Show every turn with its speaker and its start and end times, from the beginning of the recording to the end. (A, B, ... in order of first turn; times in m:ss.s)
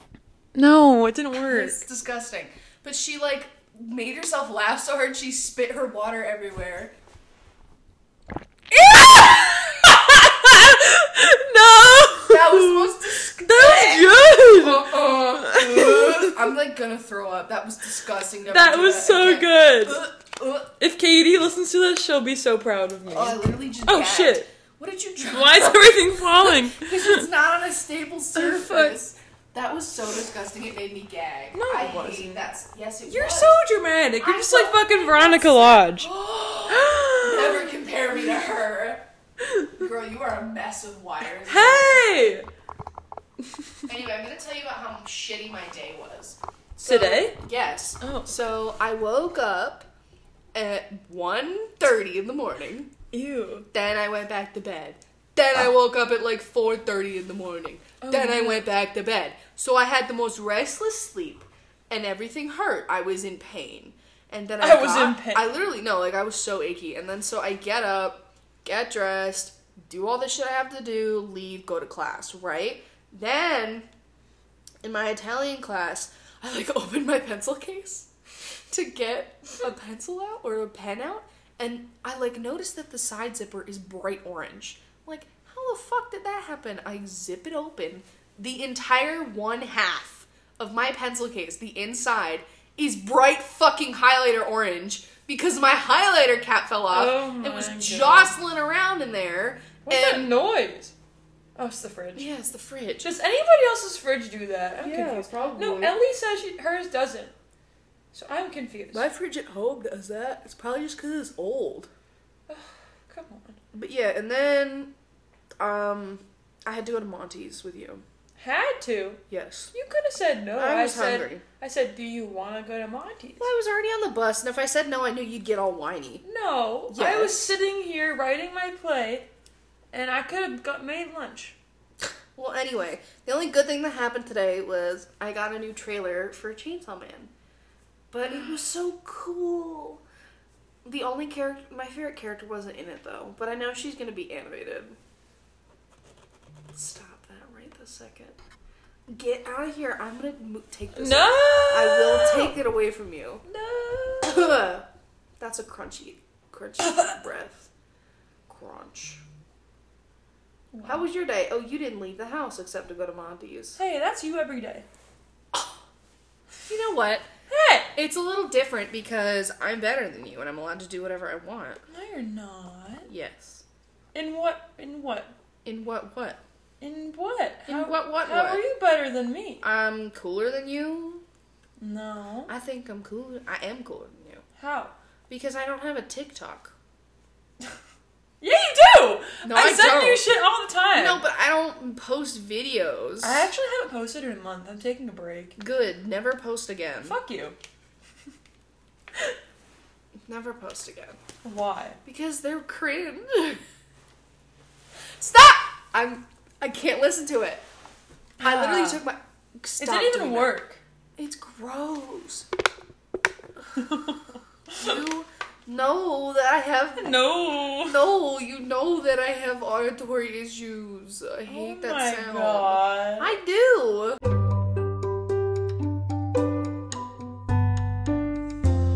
0:00.5-0:01.8 A
0:01.3-0:06.9 B
0:08.7-0:16.4 A
0:12.3-0:20.7 B
0:18.5-0:20.0 A
0:20.8-0:24.5 A
0:23.1-0:33.6 B
0:25.3-0:27.3 A
0:28.4-0:29.0 A
0:31.5-0:32.4 A
0:33.0-0:36.1 A
0:34.2-0:39.0 B
0:36.7-0:37.7 A
0:39.4-0:39.8 A
0:39.8-0:42.1 B
0:41.4-0:42.5 A
0:43.9-0:49.9 B
0:46.8-0:47.4 A
0:48.0-0:48.3 A
0:50.5-0:52.9 B
0:53.1-0:53.7 A
0:53.7-1:13.9 B
0:58.0-0:58.7 A
1:04.6-1:05.6 A
1:14.8-1:40.3 B
1:36.9-1:38.3 A
1:39.9-1:40.9 A
1:41.6-1:42.3 A
1:42.2-1:43.1 B
1:43.0-1:47.3 A
1:44.8-1:46.0 B
1:48.1-1:49.1 A
1:48.9-1:51.9 B
1:52.5-1:53.6 A
1:53.7-1:54.9 B
1:55.6-1:58.0 B
1:58.4-1:59.2 A
1:59.3-1:59.7 B
1:59.7-2:03.5 A
2:00.6-2:01.4 B
2:03.4-2:06.2 B
2:06.2-2:09.3 A
2:06.9-2:07.5 B
2:09.9-2:11.6 A
2:12.4-2:17.3 B
2:18.1-2:20.0 B
2:20.8-2:25.0 B
2:26.7-2:28.4 B
2:29.1-2:33.4 B
2:31.0-2:32.6 A
2:33.5-2:34.6 A
2:34.2-2:34.9 B
2:35.4-2:37.7 B
2:36.8-2:37.2 A
2:38.5-2:39.2 B
2:40.7-2:41.1 A
2:40.8-2:43.8 B
2:43.8-2:44.9 A
2:45.5-2:45.8 B
2:46.6-2:47.3 B
2:47.5-2:47.9 A
2:48.0-2:51.8 B
2:51.9-2:53.1 A
2:53.1-2:53.6 B
2:54.1-2:55.3 A
2:55.6-2:56.4 B
2:56.8-2:59.6 A
2:57.7-2:58.6 B
2:59.6-3:01.2 B
3:01.8-3:02.5 A
3:02.5-3:04.4 B
3:04.6-3:04.9 A
3:05.3-3:06.7 B
3:08.4-3:11.2 A
3:09.4-3:10.3 B
3:11.0-3:13.5 B
3:13.2-3:15.6 A
3:15.6-3:17.2 B
3:17.0-3:17.6 A
3:20.3-3:21.2 B
3:21.4-3:22.0 A
3:22.0-3:23.6 B
3:25.2-3:27.6 B
3:28.4-3:29.0 A
3:28.4-3:30.6 B
3:29.8-3:30.8 A
3:31.2-3:32.5 B
3:33.8-3:35.0 A
3:34.7-3:44.2 B
3:37.0-3:38.2 A
3:41.5-3:43.3 A